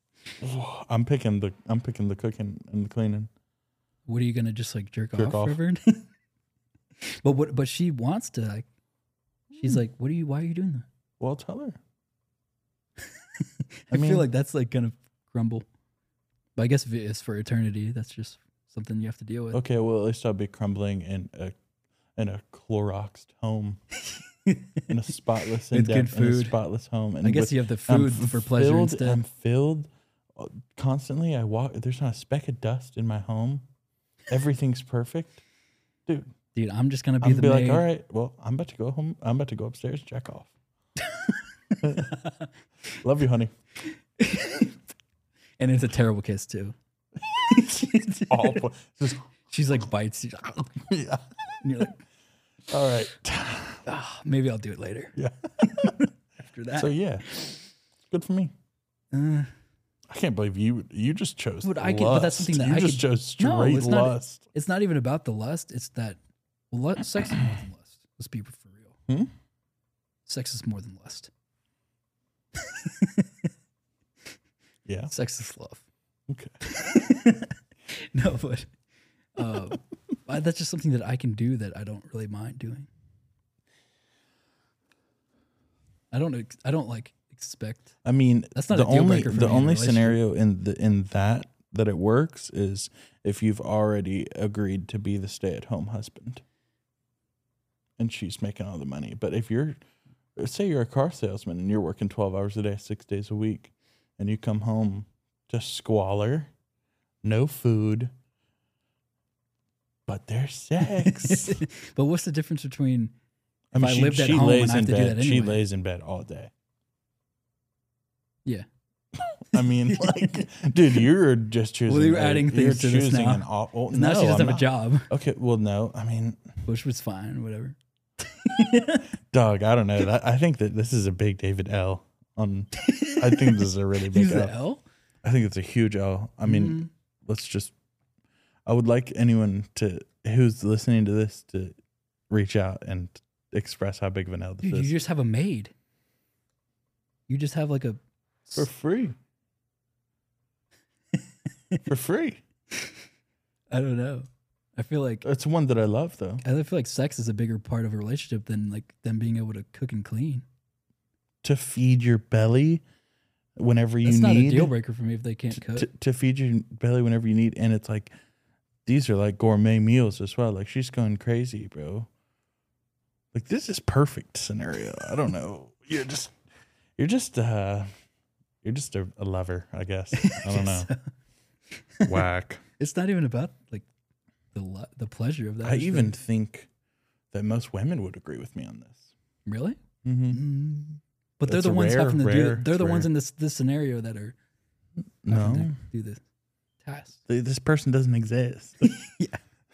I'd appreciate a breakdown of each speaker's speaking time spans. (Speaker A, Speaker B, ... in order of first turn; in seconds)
Speaker A: 0.4-3.3, 5.1-5.6, 11.2-11.8, 13.9-14.3, 19.5-21.5, 22.1-23.8, 24.9-33.6, 34.3-35.4, 36.0-36.3, 37.2-40.5, 41.8-42.1, 43.0-43.5, 47.5-49.2, 50.9-51.2, 52.7-53.8, 55.1-56.0, 56.7-57.5, 58.1-58.5, 60.1-64.4, 74.9-75.1, 76.3-76.5, 88.0-96.4, 98.0-99.8, 100.4-106.5, 107.2-108.1, 110.1-111.6, 113.7-116.5, 119.3-126.4, 129.3-134.5, 135.2-137.7, 138.7-141.8, 142.3-144.9, 148.5-149.2, 151.8-152.4, 155.2-156.4, 161.4-162.8, 163.6-164.7, 165.5-168.1, 168.8-172.1, 173.3-176.3, 177.0-177.9, 178.6-180.9, 182.0-182.6, 185.6-186.7, 187.3-189.1, 190.0-190.4, 191.4-193.1, 195.2-195.8, 197.3-198.9
Speaker B: 4.0-6.1, 7.0-8.7, 9.5-10.9, 13.0-15.7, 16.6-19.6, 24.1-24.9, 25.7-26.6, 27.2-29.2, 36.5-37.9, 41.0-42.5, 43.8-44.8, 45.6-46.8, 47.4-48.6, 49.5-50.9, 51.6-52.0, 53.9-57.5, 59.1-59.5, 61.6-66.2, 66.7-69.0, 70.2-71.3, 72.5-73.5, 75.1-75.9, 76.6-78.7, 79.3-82.9, 86.1-87.9, 88.5-90.2, 110.8-113.1, 113.7-115.6, 119.5-120.5, 121.9-125.1, 126.7-129.1, 132.8-134.8, 136.4-136.9, 144.6-145.7, 147.3-148.7, 151.1-151.8, 152.7-153.0, 153.7-155.2, 156.4-160.4, 164.0-165.9, 180.2-181.1, 181.7-182.2, 182.8-183.9, 184.5-186.1, 189.4-194.4, 195.3-196.2, 196.8-197.2, 198.8-199.4